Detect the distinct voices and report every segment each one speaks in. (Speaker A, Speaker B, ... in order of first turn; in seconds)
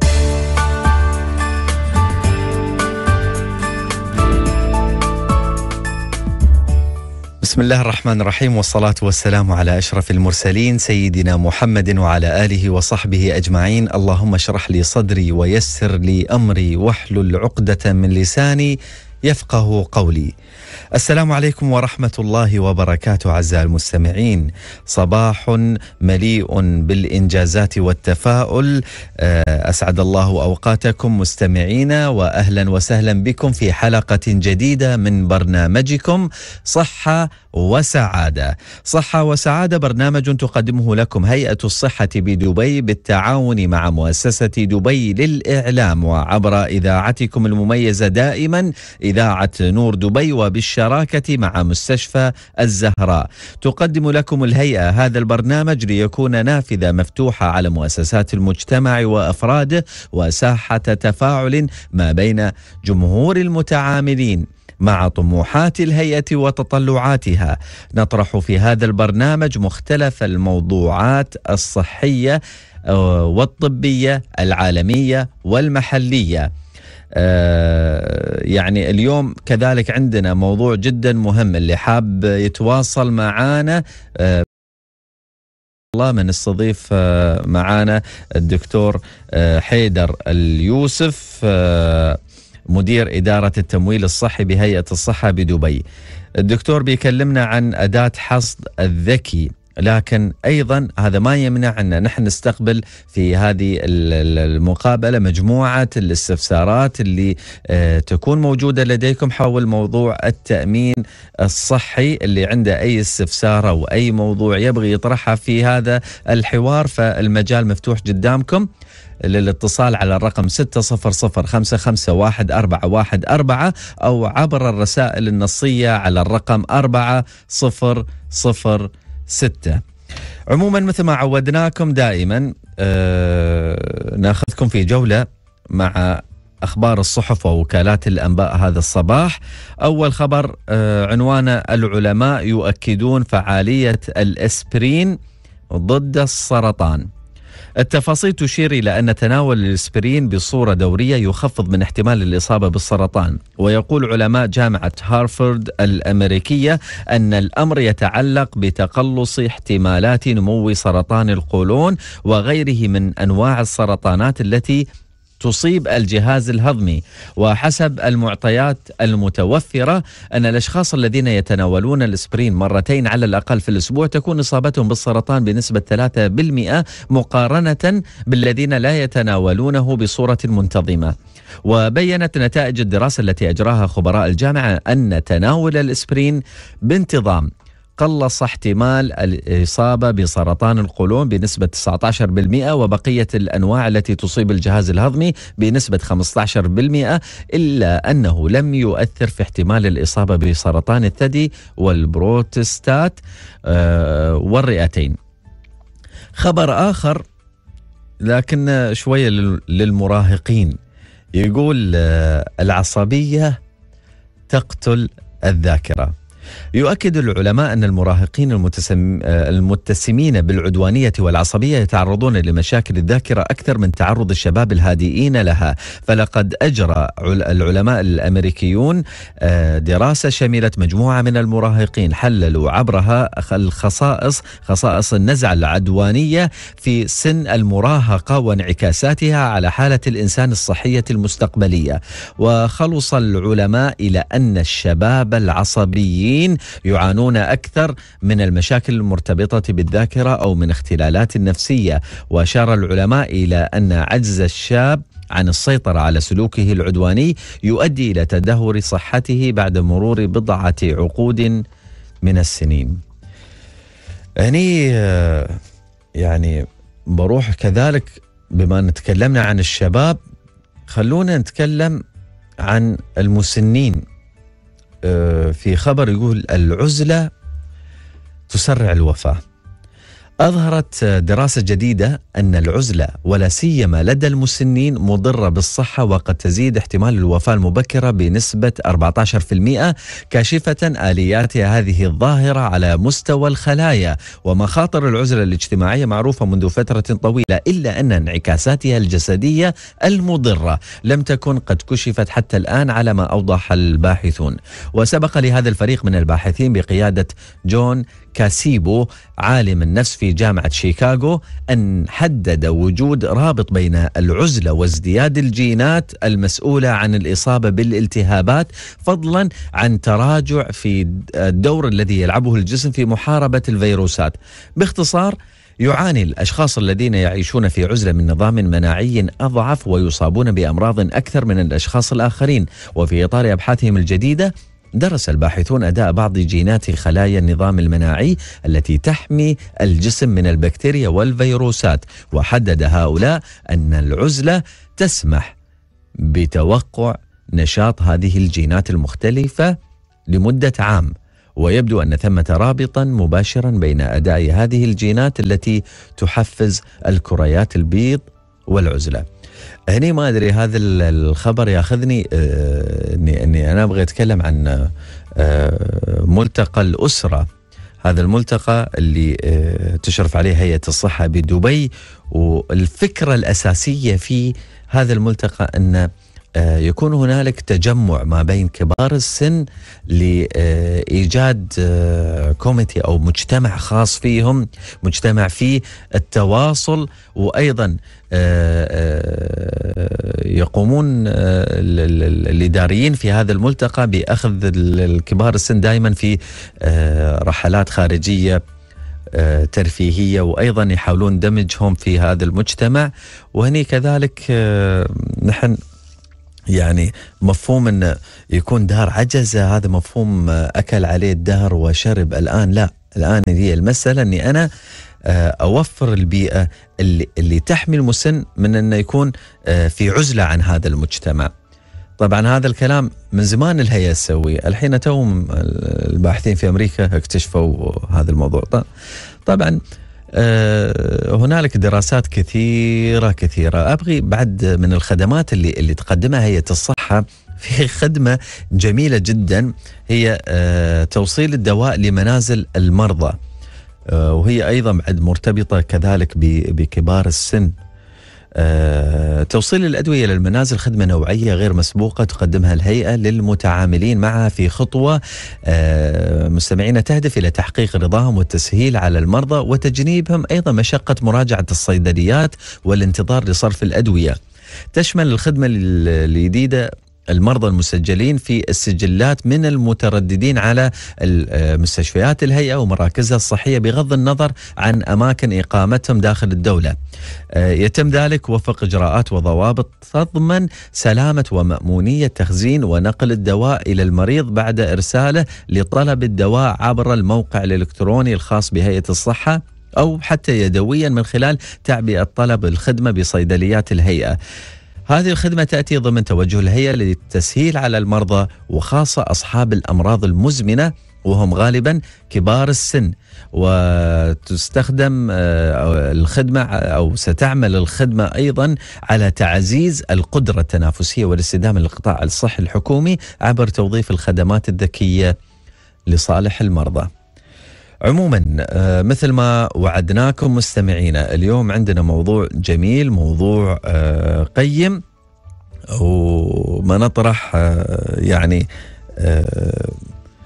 Speaker A: 7.4-20.3, 21.0-76.5, 77.2-84.5, 85.9-92.2, 92.7-95.8, 96.4-118.7, 119.3-129.8, 130.5-145.2, 145.7-147.1, 147.8-164.8, 165.4-205.2, 206.4-207.2, 208.2-210.8, 211.4-213.6, 214.5-216.1, 216.8-261.6, 262.2-263.0, 264.4-265.6, 266.2-266.6, 267.1-270.2, 270.9-272.0, 272.6-274.0, 275.1-277.3, 278.5-279.4, 280.4-345.5, 346.3-349.7, 350.3-359.3, 359.9-367.5, 368.0-398.6, 399.3-405.8, 406.7-414.7, 415.3-421.5, 422.2-428.9, 429.5-429.8, 430.4-443.4, 444.1-447.7, 448.6-464.4, 464.9-477.0, 477.6-494.4, 495.1-515.4, 516.1-517.1, 518.1-525.0, 526.0-528.6, 529.2-530.0